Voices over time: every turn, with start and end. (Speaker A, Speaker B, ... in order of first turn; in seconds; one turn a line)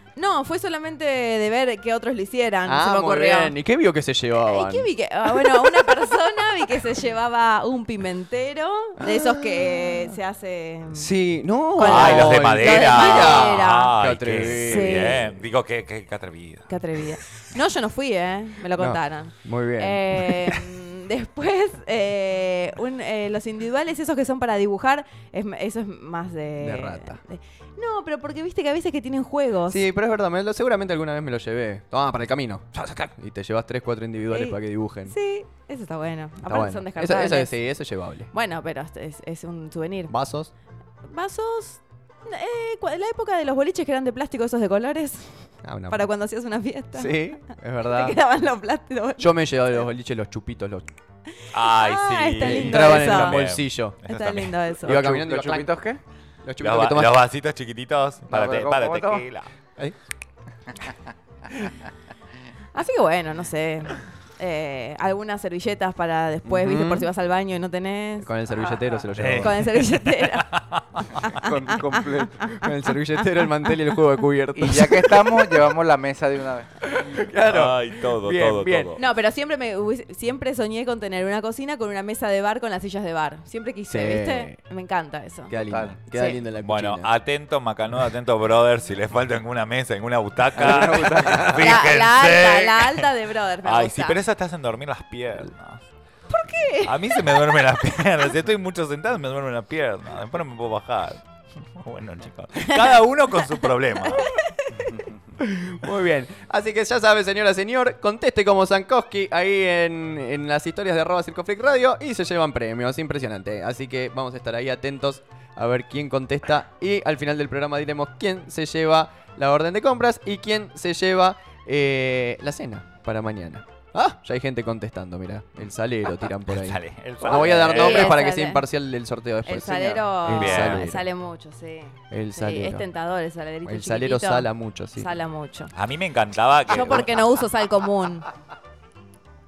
Speaker A: 0.1-3.5
Speaker B: 2.6-6.0
Speaker A: 4.4-11.1
Speaker B: 9.0-10.1
Speaker B: 10.9-15.4
Speaker A: 11.7-15.3
Speaker C: 11.8-16.7
Speaker A: 16.7-29.8
Speaker B: 18.8-20.6
Speaker B: 26.6-27.2
Speaker B: 29.7-35.1
Speaker C: 32.8-33.1
Speaker A: 34.3-37.5
Speaker B: 36.5-38.3
Speaker A: 38.3-40.1
Speaker B: 40.1-40.5
Speaker A: 41.0-49.4
Speaker B: 45.6-46.0
Speaker B: 46.9-48.2
Speaker B: 49.2-50.9
Speaker A: 51.4-53.4
Speaker C: 51.5-54.6
Speaker B: 52.4-54.0
Speaker A: 54.0-55.0
Speaker B: 54.8-55.7
Speaker D: 54.9-56.0
Speaker B: 56.4-57.2
Speaker C: 56.6-59.5
Speaker D: 58.3-59.2
Speaker A: 62.7-68.3
Speaker B: 66.4-67.1
Speaker B: 68.2-69.7
Speaker C: 69.1-71.2
Speaker A: 69.4-73.0
Speaker D: 71.2-72.6
Speaker B: 72.6-75.7
Speaker D: 74.5-76.7
Speaker B: 76.8-79.0
Speaker C: 77.4-79.0
Speaker A: 79.0-85.5
Speaker B: 83.9-84.6
Speaker B: 85.5-87.1
Speaker D: 85.7-86.0
Speaker A: 86.1-86.4
Speaker C: 86.6-93.1
Speaker D: 90.6-91.7
Speaker A: 91.5-94.2
Speaker C: 93.6-95.8
Speaker A: 96.3-97.4
Speaker C: 96.8-104.3
Speaker A: 102.6-102.9
Speaker A: 104.0-104.9
Speaker B: 105.4-131.1
Speaker C: 126.5-128.2
Speaker A: 127.2-128.7
Speaker A: 129.4-135.7
Speaker C: 130.3-130.9
Speaker B: 132.1-132.9
Speaker B: 133.6-135.1
Speaker C: 135.7-137.3
Speaker A: 136.7-138.3